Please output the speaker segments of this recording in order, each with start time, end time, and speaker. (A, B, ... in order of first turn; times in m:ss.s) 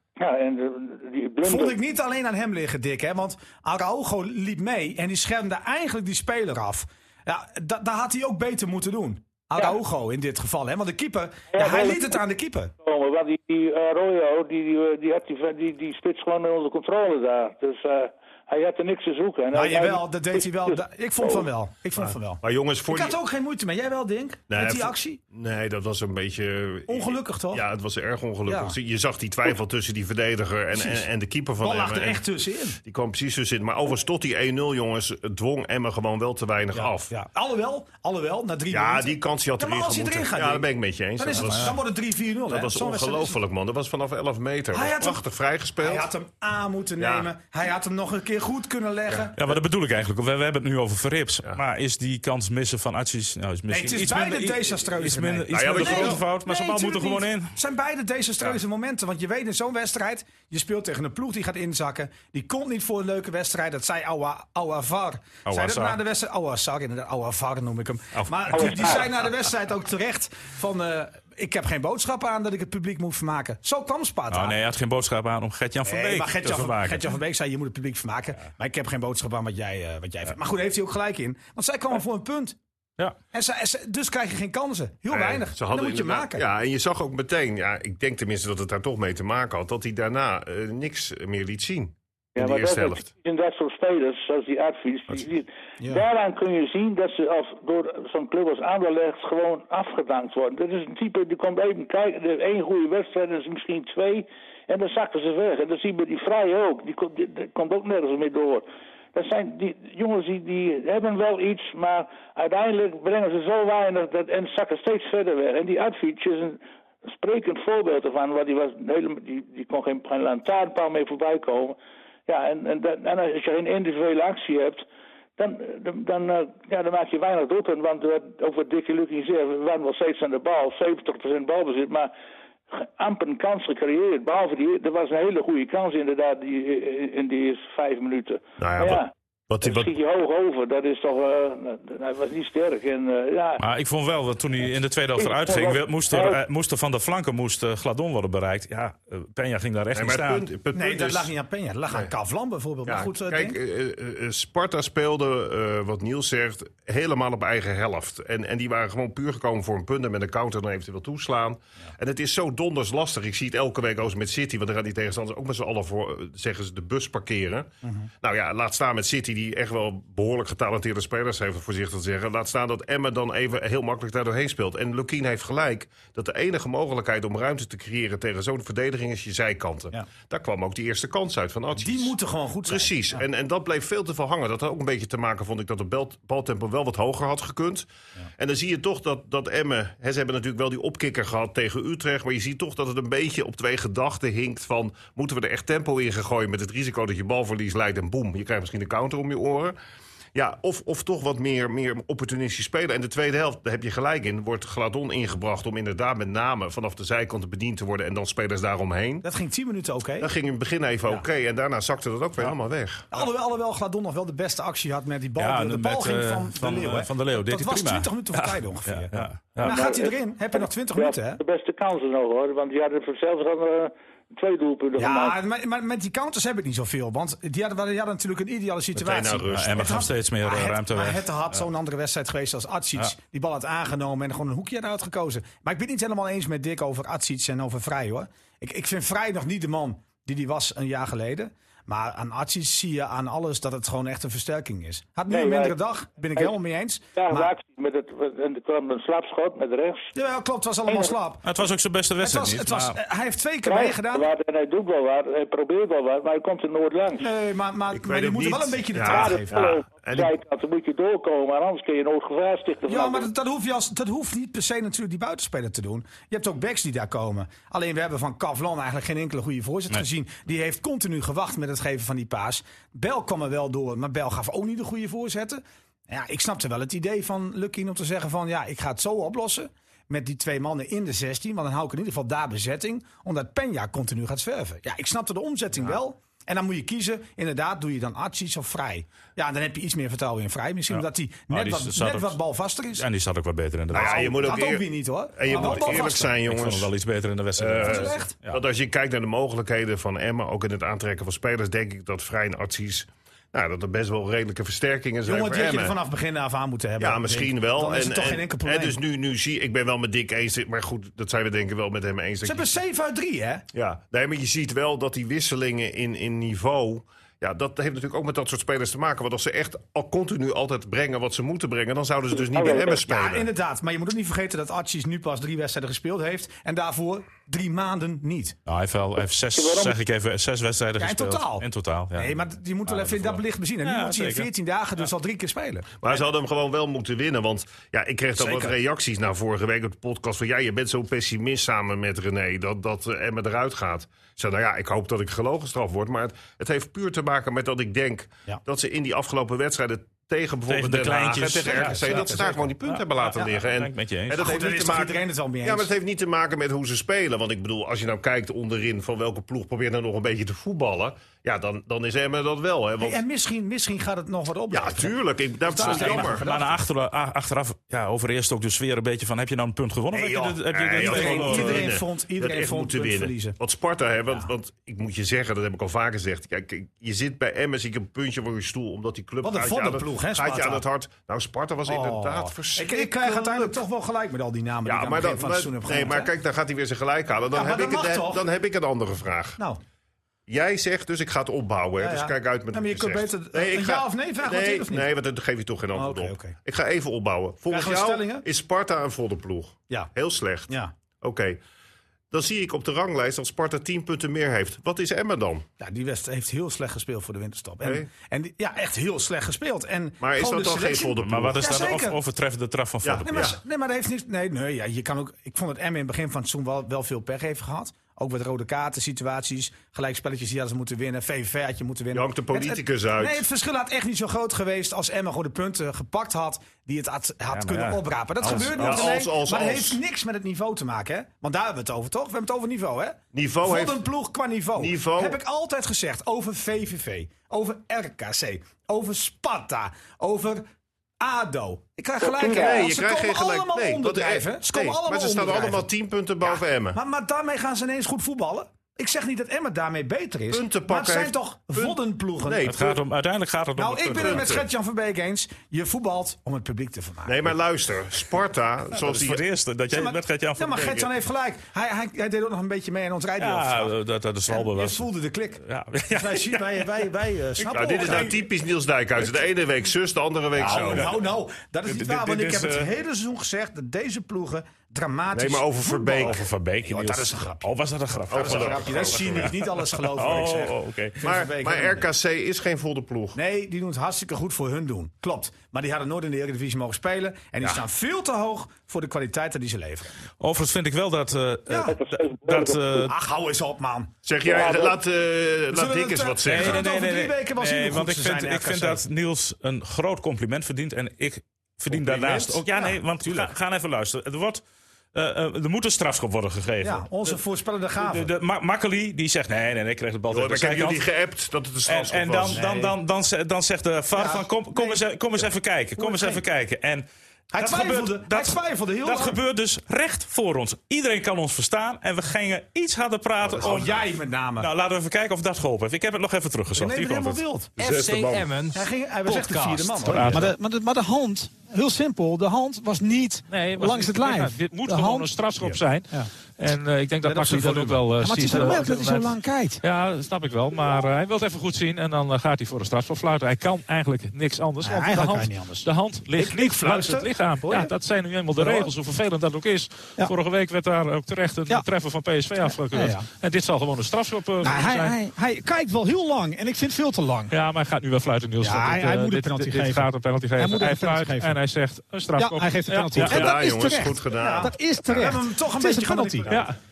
0:00.2-0:01.8 A
0:01.4-0:12.7 B
0:11.5-0:12.2 A
0:12.8-0:21.4 A
0:19.5-0:25.2 B
0:22.0-0:23.2 C
0:24.5-0:32.2 C
0:26.9-0:27.6 B
0:28.5-0:28.8 B
0:30.7-0:31.0 B
0:31.6-0:32.8 B
0:32.8-0:37.1 C
0:36.8-0:43.4 B
0:38.7-0:41.8 C
0:42.5-0:46.1 C
0:44.7-0:45.2 B
0:45.8-0:49.4 B
0:47.0-0:47.3 C
0:49.1-0:49.5 C
0:49.4-0:57.5 D
0:53.7-1:14.6 B
0:55.5-0:56.2 C
1:05.5-1:06.0 D
1:08.1-1:09.0 D
1:08.5-1:09.0 A
1:14.3-1:17.1 D
1:15.8-1:22.6 B
1:23.3-1:26.4 B
1:25.1-1:33.1 C
1:32.4-2:01.8 A
2:02.3-2:04.8 A
2:05.4-2:12.1 A
2:12.8-2:19.1 A
2:18.6-2:19.9 C
2:19.6-2:23.6 A
2:23.6-2:30.4 D
2:25.2-2:26.4 A
2:29.9-2:31.3 C
2:30.7-2:33.6 B
2:32.9-3:19.8 C
3:01.8-3:03.2 B
3:20.3-3:29.3 C
3:29.2-3:30.3 B
3:30.2-3:33.1 C
3:33.1-3:41.4 B
3:35.4-3:39.8 D
3:39.6-3:45.4 A
3:45.0-4:07.5 B
3:49.0-3:50.1 C
3:49.5-3:51.6 D
4:05.3-4:05.8 A
4:07.2-4:10.1 A
4:10.2-4:11.4 B
4:10.9-4:11.1 A
4:11.4-4:13.0 D
4:12.2-4:14.3 B
4:13.6-4:17.3 A
4:17.2-4:19.6 B
4:17.9-4:20.4 C
4:19.0-4:23.3 A
4:22.9-4:53.1 B
4:50.9-4:52.4 D
4:53.0-4:54.3 D
4:53.9-4:56.9 C
4:53.9-4:56.4 B
4:55.5-4:58.6 D
4:57.6-5:06.0 C
4:57.8-4:58.4 B
5:05.3-5:09.0 B
5:07.0-5:12.7 C
5:12.4-5:13.6 B
5:13.7-5:23.5 C
5:22.3-5:23.0 A
5:23.0-5:28.6 B
5:28.7-5:34.5 D
5:29.6-5:30.0 A
5:31.0-5:35.9 B
5:36.0-6:03.2 C
5:38.4-5:38.8 B
5:50.7-5:54.4 D
5:51.7-5:52.7 B
5:54.4-5:55.9 B
6:03.0-6:06.8 B
6:04.7-6:06.4 C
6:05.8-6:11.9 D
6:10.2-6:23.8 C
6:10.2-6:13.6 B
6:19.4-6:20.8 B
6:21.9-6:26.3 B
6:24.8-6:29.6 C
6:27.5-6:28.4 B
6:30.5-6:41.6 C
6:32.0-6:35.1 B
6:35.9-6:36.6 B
6:37.7-6:38.4 B
6:40.7-6:40.9 B
6:42.3-6:45.7 C
6:45.8-6:52.2 B
6:47.8-6:48.1 C
6:50.2-6:51.9 C
6:51.2-6:53.4 D
6:53.0-6:53.6 C
6:53.2-7:20.7 B
7:02.1-7:03.4 C
7:07.5-7:09.0 D
7:08.5-7:10.0 C
7:13.3-7:14.0 C
7:14.8-7:15.4 C
7:21.2-7:25.9 B
7:22.2-7:22.8 A
7:22.4-7:27.0 C
7:26.4-7:32.7 B
7:30.5-7:33.0 C
7:32.6-7:34.6 D
7:33.8-7:37.5 B
7:34.2-7:34.6 C
7:37.3-7:39.4 C
7:38.9-7:41.1 D
7:39.9-7:48.4 B
7:43.4-7:45.1 D
7:45.6-7:48.2 D
7:47.7-7:51.1 C
7:50.6-7:57.7 B
7:50.6-7:51.2 D
7:51.9-7:52.9 D
7:55.3-7:56.5 C
7:56.1-8:01.2 D
7:58.3-7:59.5 C
7:58.3-8:02.1 B
8:01.2-8:03.4 C
8:03.4-8:10.2 B
8:10.4-8:13.1 D
8:11.7-8:12.0 B
8:11.9-8:13.1 A
8:13.0-8:14.1 B
8:14.2-8:16.9 C
8:14.5-8:15.0 A
8:15.7-8:19.0 B
8:16.5-8:24.6 D
8:21.9-8:23.5 B
8:25.1-8:27.4 D
8:26.8-8:28.3 B
8:28.0-8:31.0 D
8:30.3-8:32.6 C
8:31.9-8:47.4 D
8:32.5-8:33.0 B
8:34.2-8:35.0 B
8:36.0-8:36.4 B
8:37.5-8:39.4 B
8:43.5-8:43.9 C
8:43.6-8:44.7 B
8:46.8-8:47.7 B
8:47.8-8:50.3 E
8:47.8-8:48.5 C
8:48.7-8:50.5 B
8:50.1-8:50.5 F
8:50.3-8:55.3 G
8:53.5-9:15.2 F
8:57.2-8:59.1 B
8:58.2-8:59.8 G
9:04.8-9:05.8 B
9:05.0-9:05.6 G
9:06.4-9:07.9 B
9:08.6-9:08.9 B
9:12.7-9:13.3 G
9:14.6-9:17.6 G
9:17.5-9:23.6 F
9:18.6-9:21.6 G
9:22.4-9:26.5 G
9:23.2-9:25.4 C
9:24.3-9:26.6 B
9:26.5-9:26.8 F